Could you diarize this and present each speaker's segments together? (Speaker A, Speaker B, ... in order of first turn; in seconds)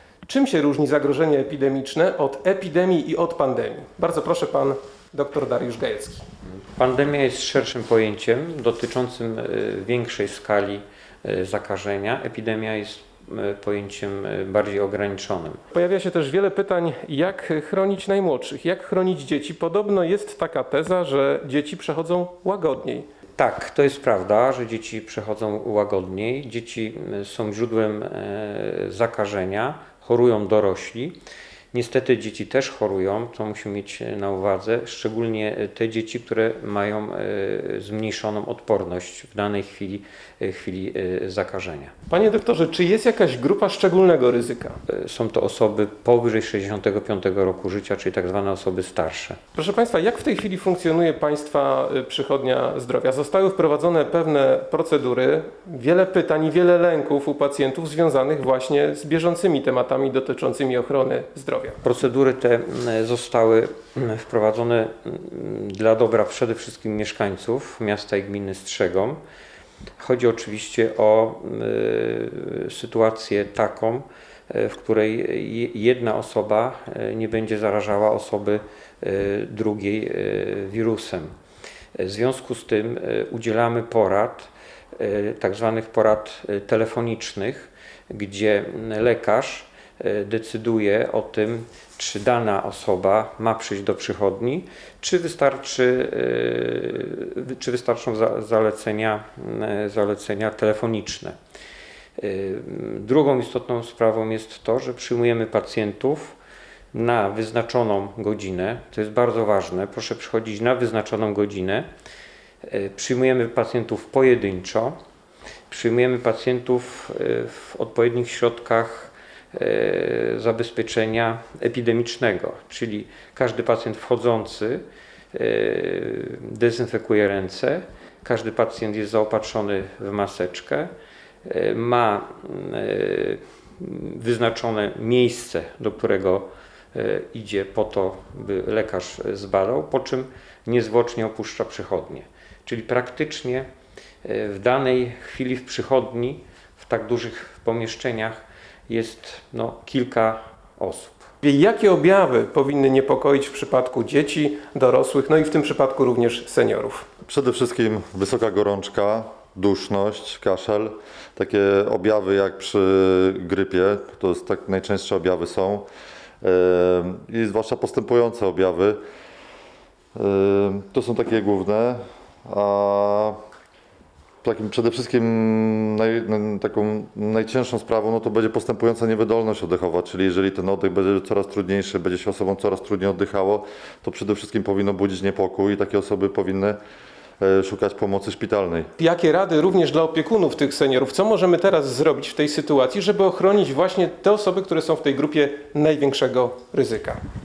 Speaker A: 0.3-6.2, 15.7-23.1, 42.1-44.8, 49.5-61.8, 151.4-157.1, 189.0-197.2
Speaker B: 6.5-15.6, 23.4-31.2, 31.7-41.9, 44.9-49.4, 61.8-69.2, 70.0-81.3, 82.0-101.4, 102.2-106.4, 106.9-111.9, 112.7-115.0, 115.7-124.8, 125.3-130.9, 131.5-143.7, 144.2-151.3
Speaker C: 157.3-165.9, 166.4-169.0, 170.2-173.4, 174.4-186.8, 187.4-188.9